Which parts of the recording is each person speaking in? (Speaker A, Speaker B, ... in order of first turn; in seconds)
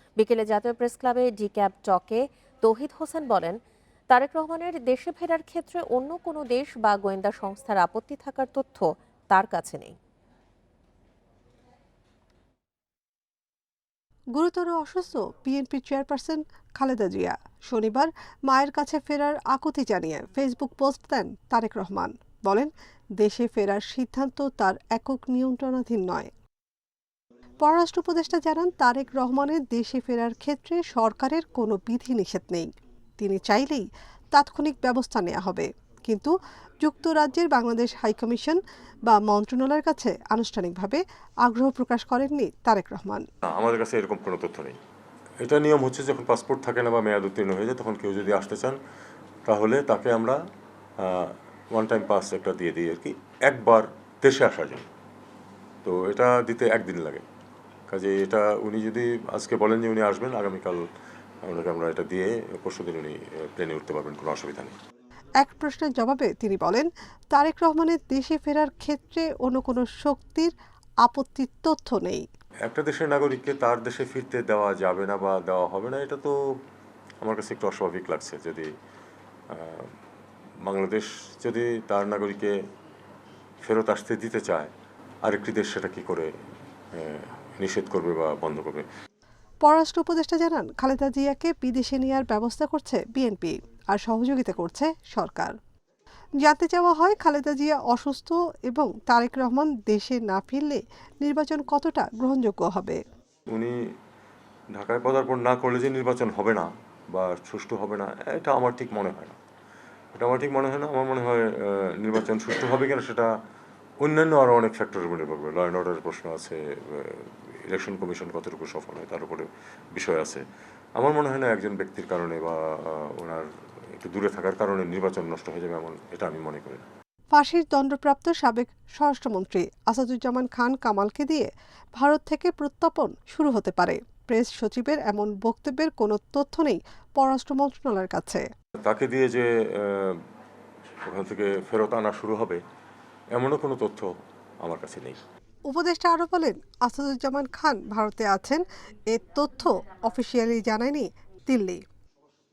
Speaker A: 0.2-3.6, 4.1-10.0
Speaker B: 14.3-26.3, 27.6-43.2, 65.4-70.5, 71.0-72.2, 89.6-95.5, 96.4-103.0, 127.3-138.4, 145.7-151.8
Speaker C: 43.5-44.8, 45.4-48.8, 49.5-50.4, 51.0-54.9, 55.9-57.2, 57.9-60.8, 61.5-64.8, 72.7-76.6, 77.2-78.7, 79.5-79.9, 80.6-82.6, 83.6-84.7, 85.2-86.3, 86.9-88.9, 103.5-103.8, 104.8-109.4, 110.2-113.3, 114.0-120.4, 121.0-126.9, 138.8-140.2, 141.0-142.6, 143.3-144.1, 144.6-145.2